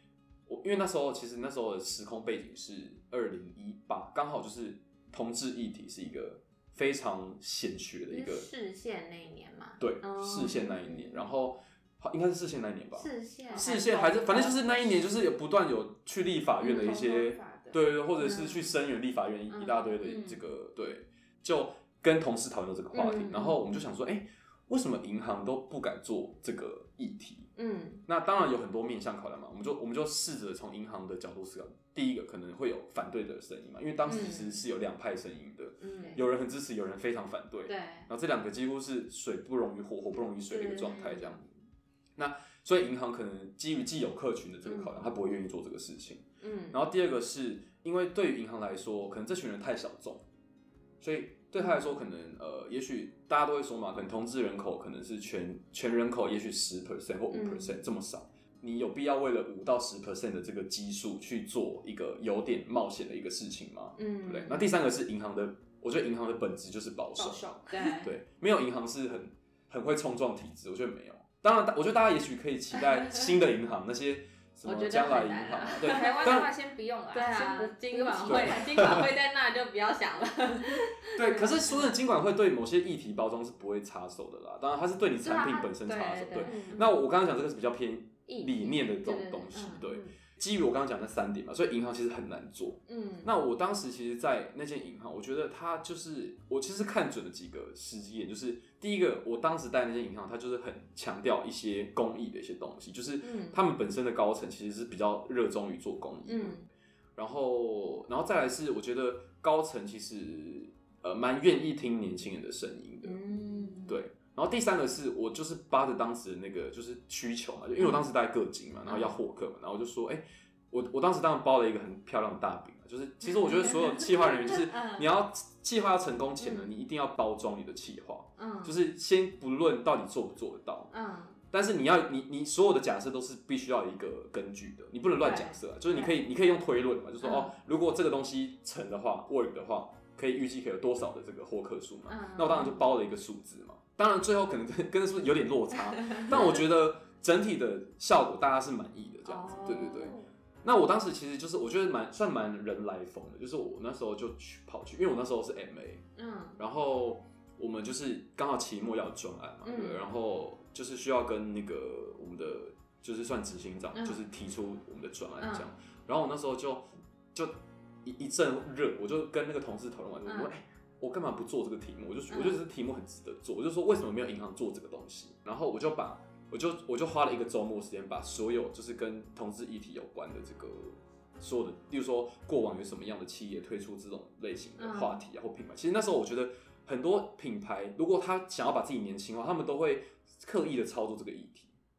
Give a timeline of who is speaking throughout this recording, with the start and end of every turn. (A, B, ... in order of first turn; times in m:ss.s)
0:00.5-0:08.5 A
0:08.1-0:11.3 B
0:09.8-0:27.5 A
0:13.0-0:14.8 B
0:13.5-0:14.5 C
0:16.6-0:16.9 B
0:16.6-0:17.8 C
0:18.2-0:18.7 B
0:19.5-0:20.4 B
0:22.9-0:23.6 B
0:27.6-0:28.0 B
0:28.1-0:41.5 A
0:34.1-0:34.6 B
0:35.8-0:36.2 B
0:37.7-0:38.1 B
0:40.5-0:41.3 B
0:42.2-0:50.2 A
0:44.6-0:44.9 B
0:46.4-0:46.8 B
0:51.0-1:07.5 A
0:57.3-0:57.8 B
1:04.0-1:04.7 B
1:07.2-1:08.0 C
1:07.7-1:08.1 B
1:08.0-1:16.5 A
1:14.6-1:16.4 B
1:15.8-1:19.0 C
1:17.1-1:22.0 B
1:18.2-1:19.1 A
1:21.2-1:46.6 A
1:25.2-1:26.9 B
1:26.4-1:26.9 C
1:28.3-1:29.9 B
1:32.9-1:33.3 B
1:43.2-1:43.6 B
1:46.3-1:46.7 B
1:47.2-1:53.2 A
1:53.0-1:54.0 B
1:53.9-2:10.9 A
1:58.9-1:59.2 B
2:03.3-2:05.1 B
2:06.4-2:06.7 B
2:08.4-2:08.8 B
2:10.9-2:11.4 B
2:11.5-2:36.0 A
2:15.2-2:16.2 B
2:17.2-2:17.6 B
2:22.1-2:22.9 B
2:26.0-2:26.6 B
2:29.2-2:30.2 B
2:36.2-2:36.6 B
2:36.6-3:11.7 A
2:39.6-2:40.0 B
2:43.9-2:44.2 B
2:45.4-2:45.7 B
2:50.2-2:50.5 B
2:52.3-2:52.6 B
3:04.8-3:05.2 B